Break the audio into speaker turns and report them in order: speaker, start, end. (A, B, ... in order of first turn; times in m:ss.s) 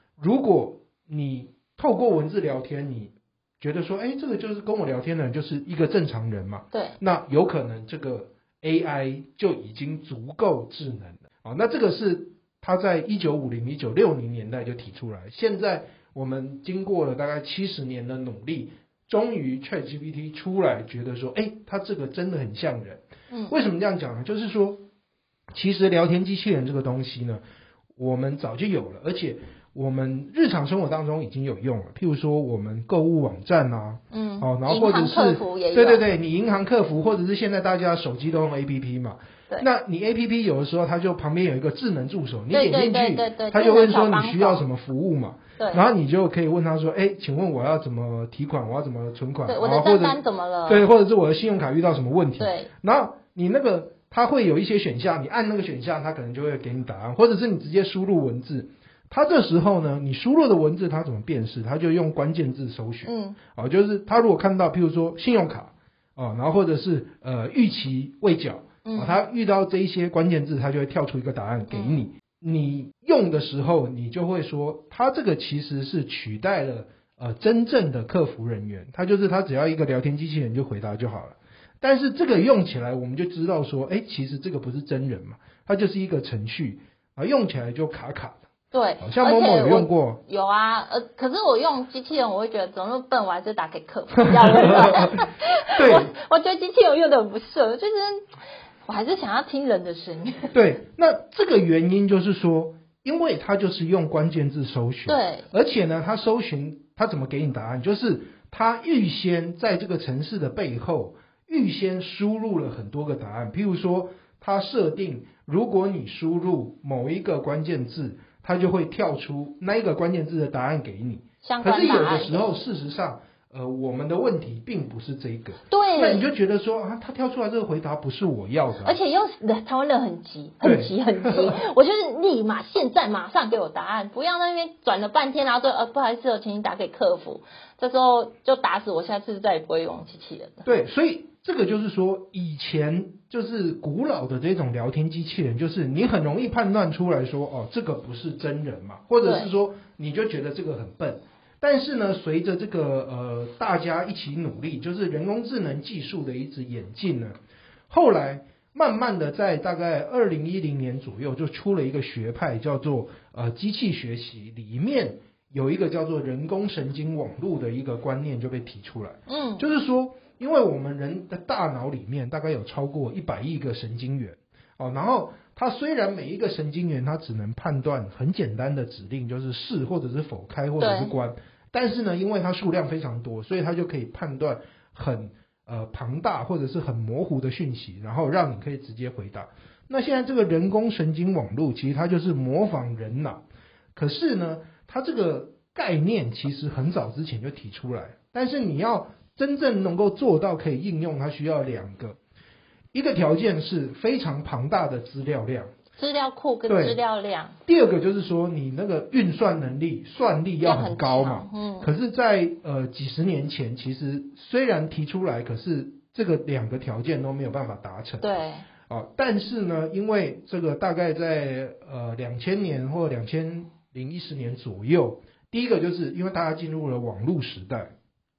0:00.2-0:24.8 A
0:25.5-0:27.4 A
0:28.0-1:28.4 A
0:34.1-0:36.0 B
0:42.5-0:44.6 B
0:45.6-0:45.8 B
0:49.4-0:50.8 B
0:52.4-0:52.7 B
1:03.0-1:03.4 B
1:08.8-1:09.2 B
1:11.7-1:12.0 B
1:28.7-1:38.2 B
1:29.0-1:30.2 A
1:34.3-1:35.2 A
1:35.7-1:36.1 A
1:38.9-1:40.5 B
1:40.5-2:09.0 A
1:45.1-1:45.5 B
2:01.4-2:02.6 B
2:05.7-2:06.3 B
2:08.8-2:20.7 B
2:10.6-2:11.6 A
2:20.6-2:37.4 A
2:37.9-3:13.4 A
2:49.3-2:49.6 B
3:00.8-3:01.1 B
3:13.9-3:22.2 A
3:22.9-3:25.7 A
3:26.0-3:27.5 B
3:26.7-3:27.0 A
3:27.6-3:38.3 A
3:30.6-3:31.9 B
3:38.2-3:38.6 B
3:38.9-3:47.9 A